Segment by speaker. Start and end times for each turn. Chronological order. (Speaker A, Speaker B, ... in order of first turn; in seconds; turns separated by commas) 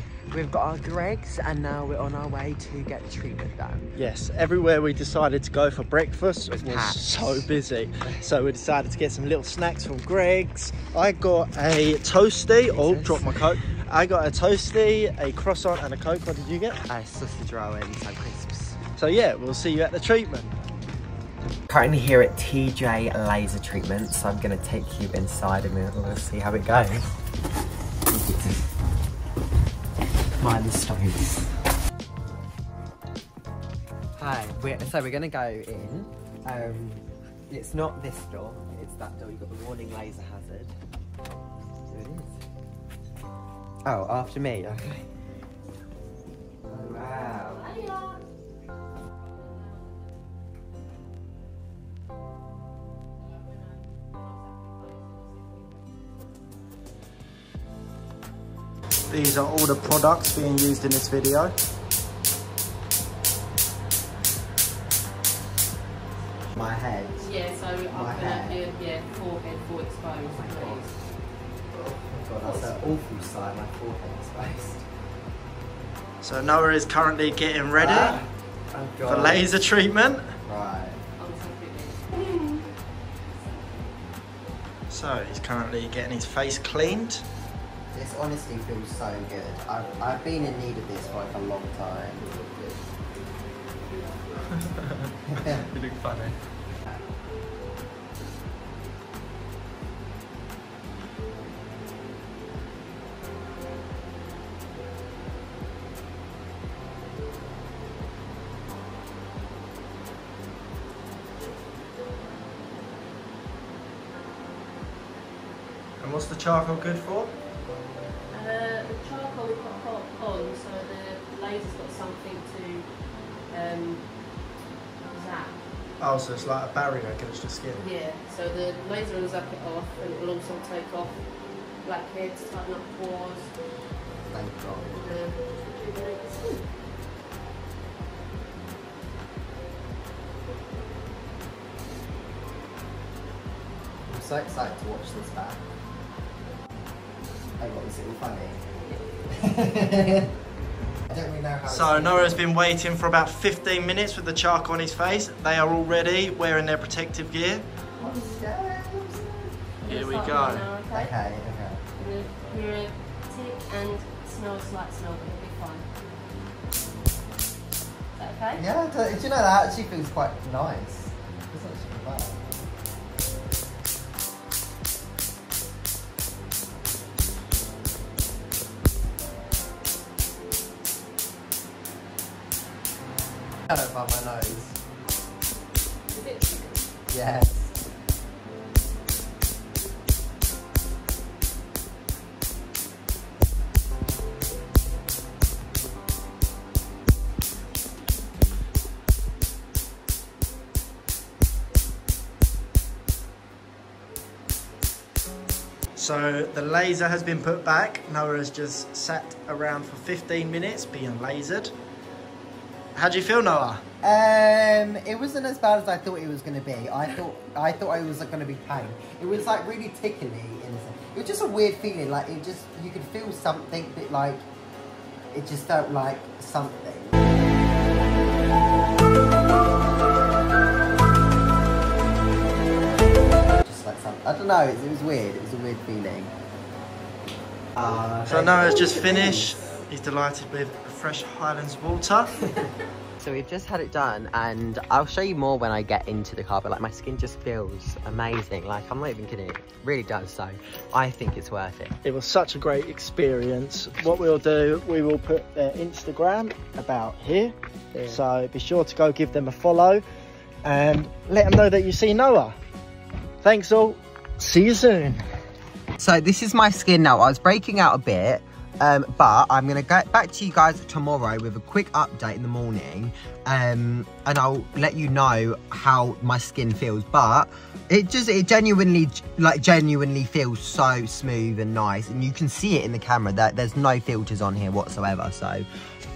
Speaker A: 0.3-3.9, Speaker B: 3.9-16.8, Speaker A: 6.5-7.5, Speaker A: 12.6-13.5, Speaker A: 16.8-18.8, Speaker B: 19.0-20.6, Speaker A: 21.7-27.1, Speaker A: 28.1-28.6, Speaker A: 30.4-31.5, Speaker A: 34.2-40.7, Speaker A: 41.9-42.4, Speaker A: 43.8-45.1, Speaker A: 46.7-47.7, Speaker C: 47.4-48.2, Speaker C: 49.2-50.0, Speaker C: 53.3-55.8, Speaker B: 59.1-61.5, Speaker A: 66.5-67.3, Speaker C: 67.2-70.9, Speaker A: 67.9-68.6, Speaker A: 70.2-70.9, Speaker A: 71.7-74.8, Speaker C: 72.4-72.8, Speaker B: 76.2-78.2, Speaker A: 77.8-79.5, Speaker B: 79.0-80.3, Speaker A: 80.4-81.0, Speaker C: 81.2-82.6, Speaker B: 84.9-87.2, Speaker A: 87.9-92.8, Speaker C: 93.9-94.4, Speaker A: 95.2-95.7, Speaker B: 95.8-96.2, Speaker B: 116.0-117.3, Speaker C: 118.3-122.9, Speaker C: 123.5-124.1, Speaker C: 125.1-125.6, Speaker B: 126.0-127.8, Speaker C: 127.8-131.2, Speaker C: 131.8-133.5, Speaker A: 134.3-135.0, Speaker C: 134.9-136.7, Speaker A: 144.1-145.6, Speaker A: 147.6-148.7, Speaker A: 149.3-150.3, Speaker A: 151.1-152.4, Speaker B: 151.7-157.7, Speaker A: 158.0-159.5, Speaker C: 158.0-158.4, Speaker C: 159.8-161.2, Speaker B: 159.8-160.7, Speaker A: 160.9-161.8, Speaker C: 161.9-165.9, Speaker C: 168.2-168.6, Speaker A: 168.6-172.4, Speaker A: 183.7-184.8, Speaker C: 186.1-186.8, Speaker A: 187.1-187.7, Speaker B: 205.9-211.7, Speaker B: 212.9-213.8, Speaker A: 214.0-224.4, Speaker A: 225.3-227.2, Speaker A: 233.6-236.3, Speaker A: 237.8-239.7, Speaker B: 238.2-242.4, Speaker A: 243.2-251.9, Speaker B: 252.0-260.0, Speaker B: 260.6-262.5, Speaker B: 263.4-265.2, Speaker A: 266.0-285.6